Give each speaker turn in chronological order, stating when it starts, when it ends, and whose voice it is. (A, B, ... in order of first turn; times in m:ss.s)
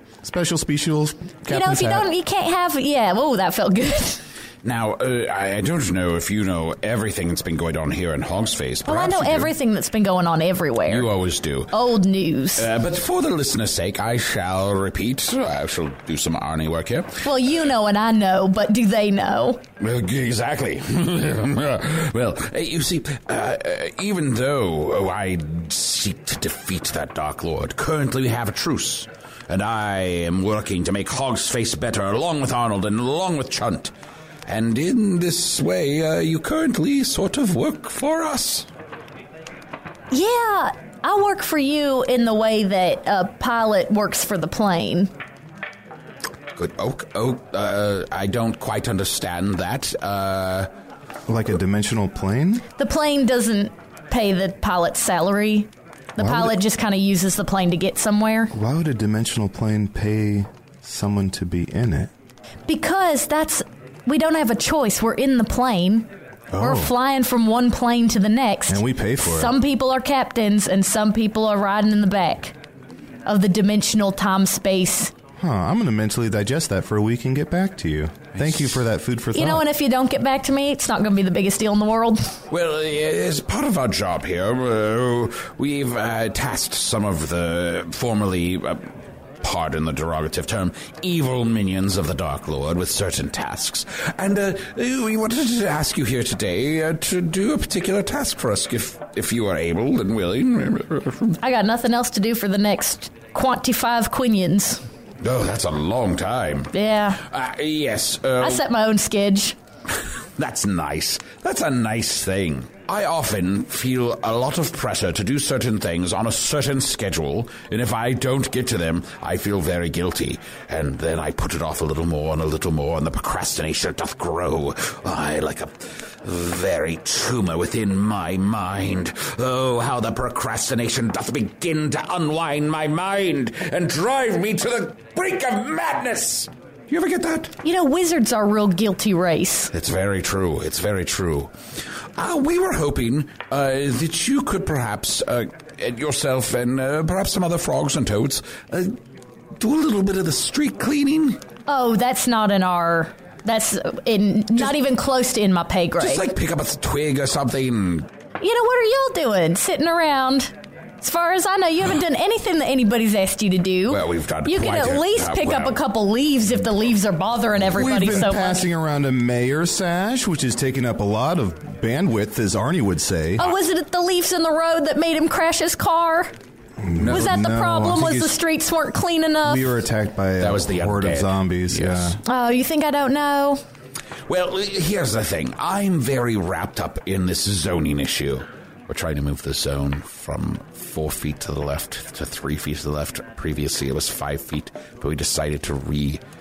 0:00.2-0:02.1 A
0:01.5-0:04.2 B
0:04.6-0:09.5 C
0:08.8-0:11.1 B
0:10.9-0:11.7 C
0:11.7-0:12.7 B
0:12.6-0:17.1 C
0:17.2-0:19.6 B
0:19.8-0:33.9 C
0:34.5-0:38.7 C
0:40.1-0:45.1 B
0:46.6-0:50.7 C
0:51.3-0:52.6 A
0:52.8-0:58.5 B
0:56.2-0:56.5 A
0:58.5-1:02.1 A
1:02.7-1:06.1 B
1:06.5-1:06.9 A
1:06.6-1:12.5 B
1:08.7-1:09.5 A
1:13.2-1:15.1 B
1:15.4-1:19.6 A
1:19.3-1:22.2 B
1:22.5-1:28.8 C
1:29.4-1:41.3 C
1:41.4-1:44.8 B
1:45.2-1:48.6 C
1:46.7-1:47.2 B
1:48.4-1:49.5 B
1:50.4-2:17.5 C
2:17.6-2:19.7 B
2:19.7-2:21.5 C
2:22.2-2:28.9 C
2:29.6-2:31.4 C
2:31.7-2:36.3 B
2:36.0-2:38.1 C
2:38.4-2:48.7 B
2:43.9-2:45.8 C
2:47.6-2:53.5 A
2:53.4-2:56.3 B
2:56.8-2:58.4 A
2:57.0-2:57.4 C
2:57.1-2:59.7 B
2:59.4-3:02.2 A
3:00.4-3:02.2 C
3:02.2-3:03.6 B
3:04.3-3:16.2 C